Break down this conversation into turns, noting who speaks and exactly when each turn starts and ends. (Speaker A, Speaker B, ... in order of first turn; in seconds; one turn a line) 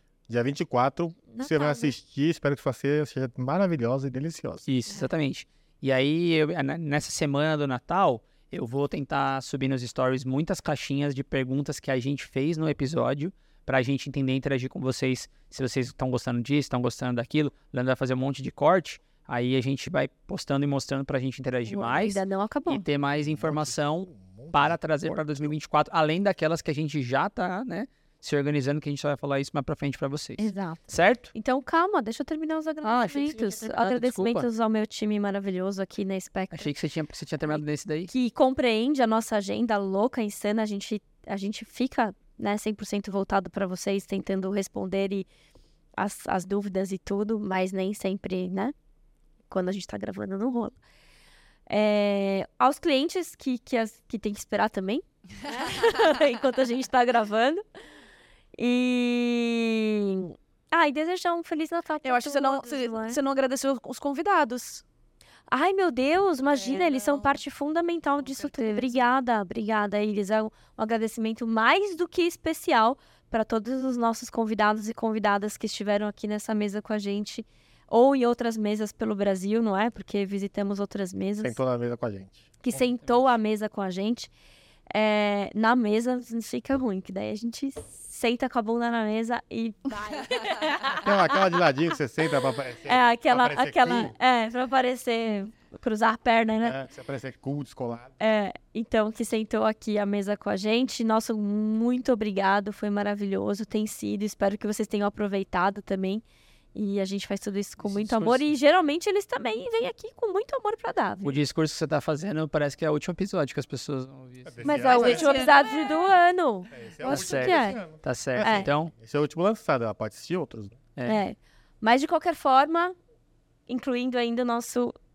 Speaker A: 0.3-4.6
Speaker B: 1.3-1.9
Speaker C: 4.7-31.3
Speaker B: 21.7-22.8
Speaker A: 23.1-25.5
Speaker B: 30.4-36.7
Speaker C: 32.8-34.5
Speaker C: 36.5-38.1
Speaker B: 37.5-45.3
Speaker B: 46.0-48.7
Speaker B: 49.5-50.8
Speaker B: 51.7-57.6
Speaker B: 58.5-63.2
Speaker D: 62.0-64.8
Speaker B: 65.5-81.6
Speaker D: 66.5-67.4
Speaker D: 68.2-69.0
Speaker A: 81.4-82.5
Speaker B: 82.6-84.3
Speaker C: 82.7-83.3
Speaker B: 84.9-91.5
Speaker A: 91.0-94.1
Speaker B: 92.8-96.8
Speaker A: 96.6-98.1
Speaker B: 98.2-106.2
Speaker B: 106.7-111.4
Speaker C: 107.8-108.4
Speaker C: 111.2-114.6
Speaker A: 114.4-115.4
Speaker B: 114.6-117.8
Speaker D: 114.8-115.5
Speaker A: 116.7-120.8
Speaker C: 117.0-118.9
Speaker B: 118.4-118.7
Speaker B: 121.0-122.9
Speaker B: 123.7-124.9